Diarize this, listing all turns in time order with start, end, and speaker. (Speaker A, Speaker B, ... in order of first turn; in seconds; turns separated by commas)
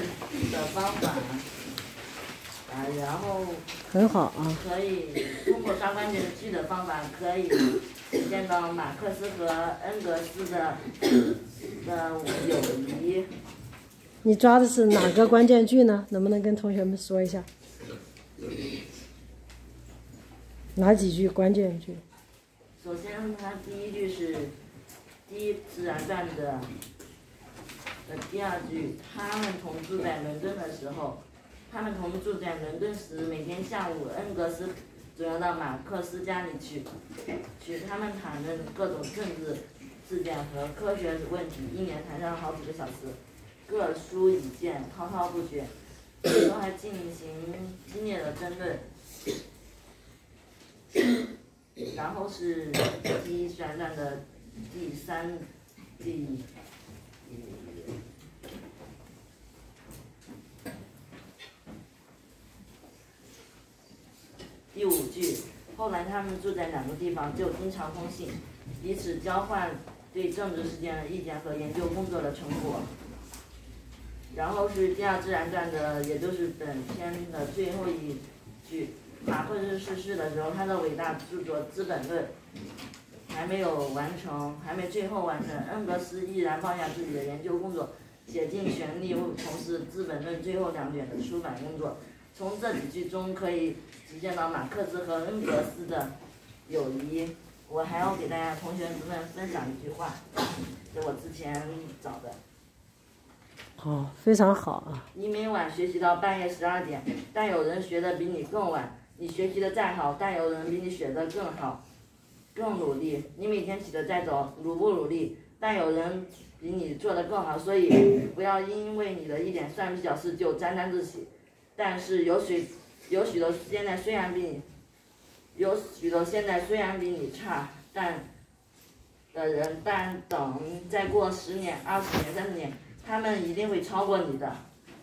Speaker A: 0.4-1.5, Speaker A: 2.7-3.7, Speaker B: 3.9-4.6, Speaker A: 4.5-10.9, Speaker A: 11.8-13.3, Speaker B: 14.2-17.5, Speaker B: 20.8-22.0, Speaker A: 22.8-24.5, Speaker A: 25.3-26.7, Speaker A: 28.1-36.9, Speaker A: 37.6-45.7, Speaker A: 46.2-48.9, Speaker A: 51.9-55.5, Speaker A: 56.0-56.5, Speaker A: 57.3-58.0, Speaker A: 64.7-72.9, Speaker A: 74.3-82.3, Speaker A: 83.3-96.1, Speaker A: 96.7-100.2, Speaker A: 100.9-102.4, Speaker B: 103.8-105.1, Speaker A: 105.1-111.8, Speaker A: 112.5-124.7, Speaker A: 125.5-128.3, Speaker A: 129.3-134.6